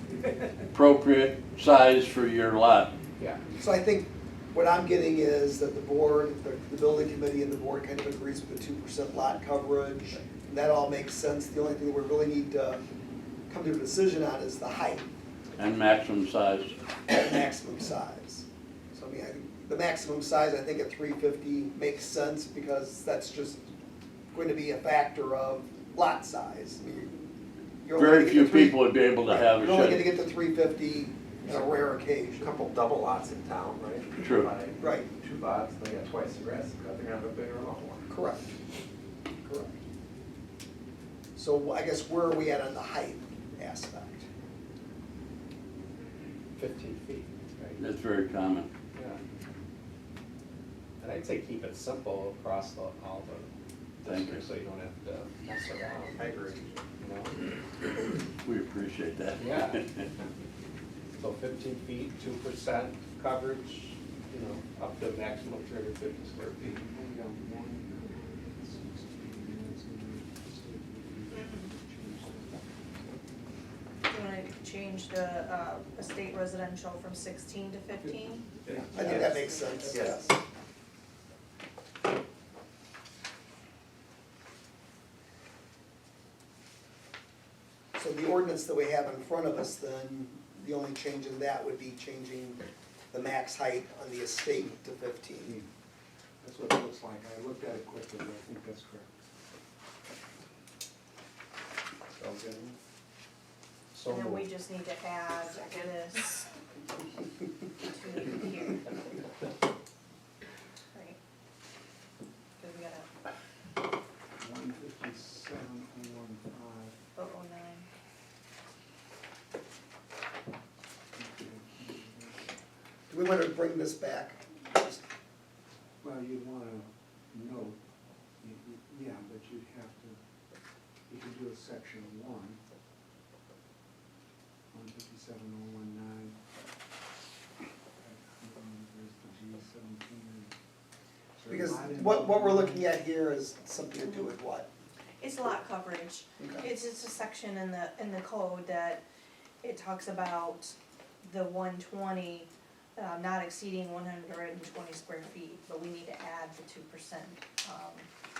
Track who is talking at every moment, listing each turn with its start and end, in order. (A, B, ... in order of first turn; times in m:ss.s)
0:00.7-0:02.9 A
0:03.6-0:12.8 B
0:13.5-0:15.0 B
0:15.6-0:16.7 A
0:17.1-0:23.6 B
0:24.3-0:27.1 B
0:27.8-0:32.5 B
0:27.9-0:30.1 A
0:31.5-0:31.7 C
0:32.4-0:38.0 C
0:34.2-0:34.5 A
0:34.8-0:35.1 B
0:38.1-0:38.5 B
0:39.4-0:39.8 B
0:41.3-0:44.3 B
0:46.6-0:47.8 D
0:47.8-0:48.7 A
0:51.0-0:53.5 D
0:54.0-0:54.5 A
0:54.0-0:56.2 D
0:55.9-0:56.7 C
0:57.0-0:57.4 D
0:58.4-0:59.8 A
0:59.4-0:59.8 D
1:01.2-1:06.7 D
1:06.6-1:12.8 E
1:11.3-1:11.7 F
1:14.1-1:19.9 F
1:18.6-1:20.2 C
1:18.7-1:19.5 E
1:18.9-1:20.3 B
1:27.9-1:35.6 B
1:35.4-1:35.7 E
1:36.4-1:39.1 E
1:42.2-1:42.7 C
1:43.9-1:44.4 D
1:44.0-1:46.5 F
1:47.8-1:49.2 F
1:50.9-1:51.2 F
1:52.6-1:53.1 F
1:54.4-1:56.9 E
1:57.1-1:57.9 F
2:01.2-2:02.5 E
2:03.1-2:05.0 B
2:06.0-2:07.8 E
2:08.4-2:10.2 E
2:11.1-2:12.6 E
2:14.7-2:16.4 E
2:18.0-2:20.5 E
2:21.4-2:22.9 E
2:21.5-2:24.7 B
2:24.0-2:24.3 F
2:25.2-2:29.0 F
2:26.4-2:26.6 B
2:29.6-2:38.1 F